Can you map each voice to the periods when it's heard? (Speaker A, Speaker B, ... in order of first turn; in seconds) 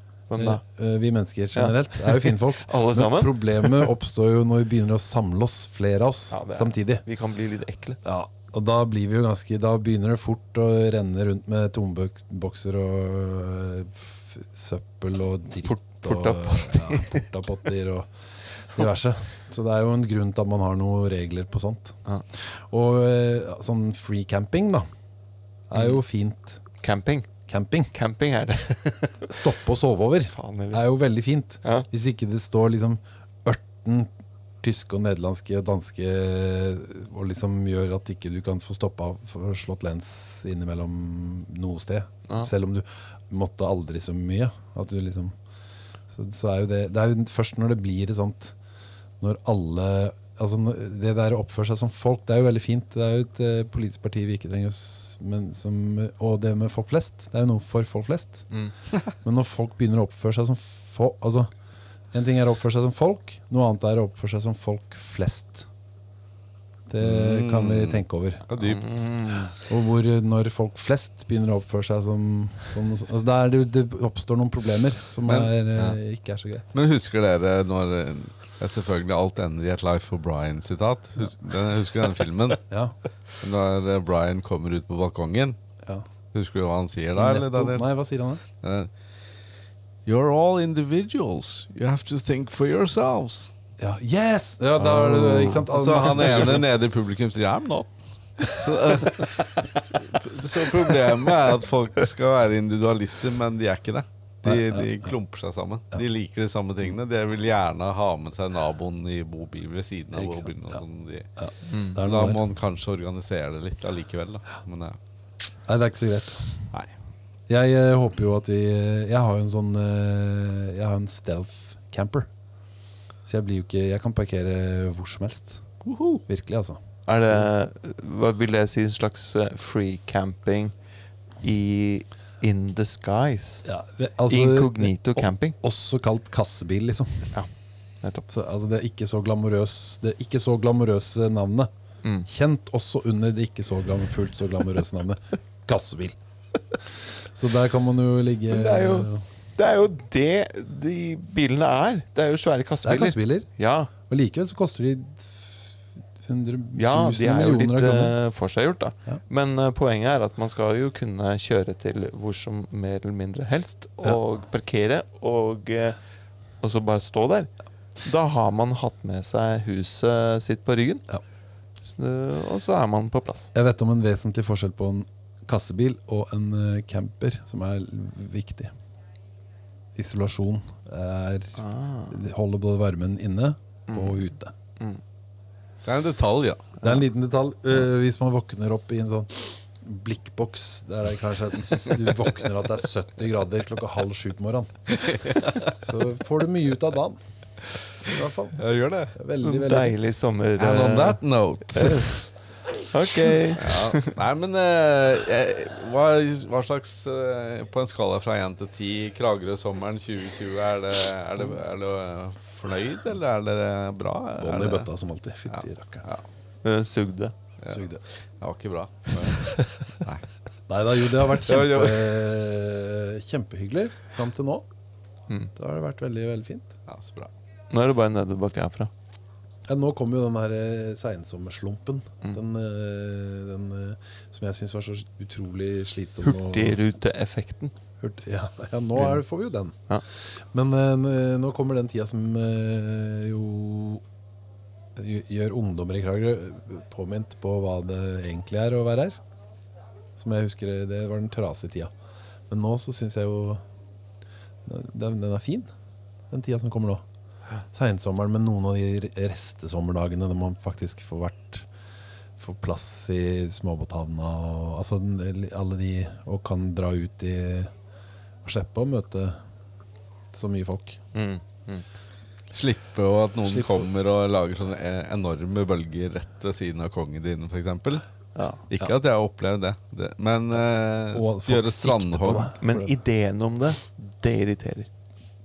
Speaker A: 0.3-0.6, 1.6-3.9, 6.3-8.0, 15.6-17.3, 26.8-27.3, 27.9-29.3, 30.3-30.9, 68.6-69.5, 111.7-112.0, 127.1-130.7, 131.4-133.7, 134.3-135.6, 138.0-138.3, 148.5-153.9, 156.8-166.0, 166.6-167.5, 168.0-171.1, 171.8-173.5, 181.6-182.1, 183.9-184.2, 199.4-201.2, 201.7-202.3, 202.8-204.2, 216.6-217.3, 227.7-228.9, 236.2-237.7, 271.1-271.9, 278.4-278.6, 282.6-284.9
Speaker B: 0.4-7.0, 8.0-18.1, 18.6-24.9, 25.7-26.6, 27.5-27.9, 29.3-34.1, 34.6-45.4, 46.1-48.5, 49.2-58.5, 59.2-61.5, 62.1-65.7, 66.9-68.5, 69.5-76.7, 82.7-83.0, 87.2-88.4, 93.8-96.7, 104.5-105.1, 110.2-110.8, 111.4-112.4, 115.7-116.7, 117.5-122.3, 123.2-125.6, 126.3-126.8, 133.7-137.3, 138.3-141.7, 142.3-146.2, 147.2-149.2, 152.8-158.2, 173.5-178.7, 179.9-184.5, 186.8-194.9, 195.7-197.2, 198.1-198.6, 199.2-200.0, 200.7-201.2, 214.4-216.1, 217.7-218.0, 220.7-224.7, 225.6-226.7, 229.7-236.8, 238.0-244.0, 245.0-249.2, 250.2-251.9, 252.5-253.6, 254.7-255.7, 256.3-257.0, 257.7-261.7, 262.4-267.7, 268.4-269.4, 270.3-271.0, 273.5-273.9, 281.1-283.0
Speaker C: 67.0-69.1, 75.3-75.5, 76.7-82.6, 83.4-85.6, 86.3-87.9, 88.6-88.9, 90.1-93.5, 94.8-111.3, 111.9-115.0, 125.8-126.2, 185.8-186.7, 194.9-195.7, 198.6-199.1, 200.6-202.2, 203.5-214.9, 215.5-216.2, 217.6-217.9, 218.4-220.3, 221.3-222.3, 226.9-227.3, 272.5-278.1, 278.7-282.5